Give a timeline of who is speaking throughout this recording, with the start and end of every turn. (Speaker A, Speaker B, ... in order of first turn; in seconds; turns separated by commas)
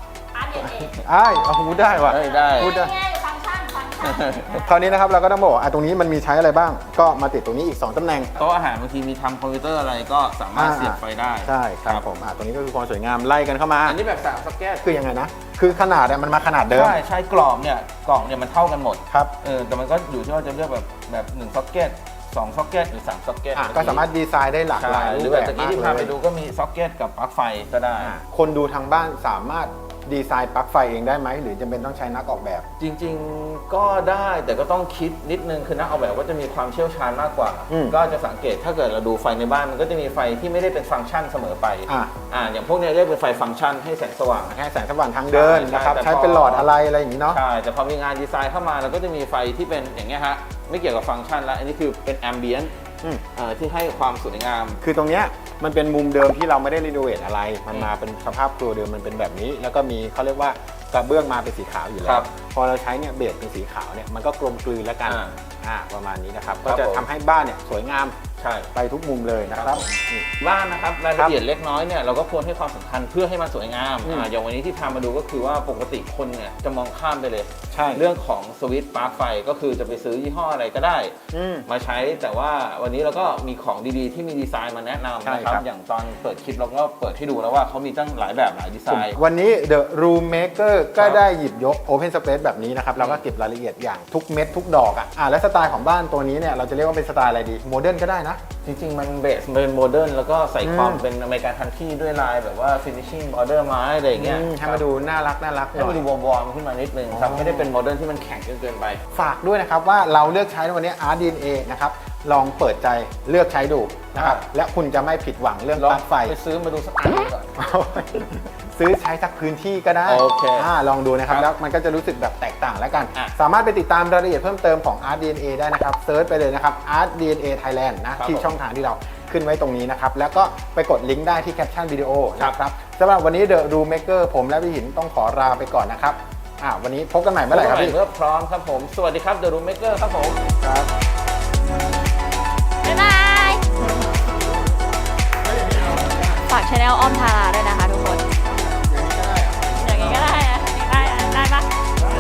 Speaker A: 0.3-0.9, Speaker B: 0.6-2.9, Speaker C: 2.0-2.8, Speaker A: 2.5-4.7, Speaker C: 4.0-4.6, Speaker B: 4.6-8.3, Speaker C: 8.4-12.0, Speaker B: 10.6-14.0, Speaker C: 13.8-14.8, Speaker B: 14.8-17.0, Speaker C: 16.7-24.1, Speaker B: 23.6-26.1, Speaker C: 24.8-28.2, Speaker B: 28.0-32.7, Speaker C: 32.8-44.6, Speaker B: 37.7-38.0, Speaker B: 41.9-42.1, Speaker B: 44.5-47.4, Speaker C: 45.3-46.7, Speaker C: 47.3-52.7, Speaker C: 53.3-54.8, Speaker B: 54.8-68.2, Speaker C: 62.0-62.3, Speaker C: 65.1-65.4, Speaker C: 66.6-67.0, Speaker C: 68.4-68.7, Speaker B: 68.7-70.3, Speaker C: 69.5-69.8, Speaker C: 70.4-81.2, Speaker B: 74.0-74.3, Speaker B: 77.7-78.0, Speaker B: 81.3-81.7, Speaker C: 81.7-89.2, Speaker B: 85.2-85.7, Speaker B: 88.9-98.4, Speaker C: 91.0-91.2, Speaker C: 98.6-104.8, Speaker B: 100.6-101.0, Speaker B: 104.2-106.0, Speaker C: 105.7-109.0, Speaker B: 107.1-107.7, Speaker B: 109.1-116.3, Speaker C: 114.2-114.4, Speaker C: 115.8-117.6, Speaker B: 117.6-138.0, Speaker C: 120.1-120.7, Speaker C: 128.2-128.5, Speaker C: 137.5-140.4, Speaker B: 140.6-140.9, Speaker A: 142.8-143.9, Speaker B: 145.6-146.2, Speaker A: 146.5-148.2, Speaker B: 148.7-150.3, Speaker A: 149.8-151.7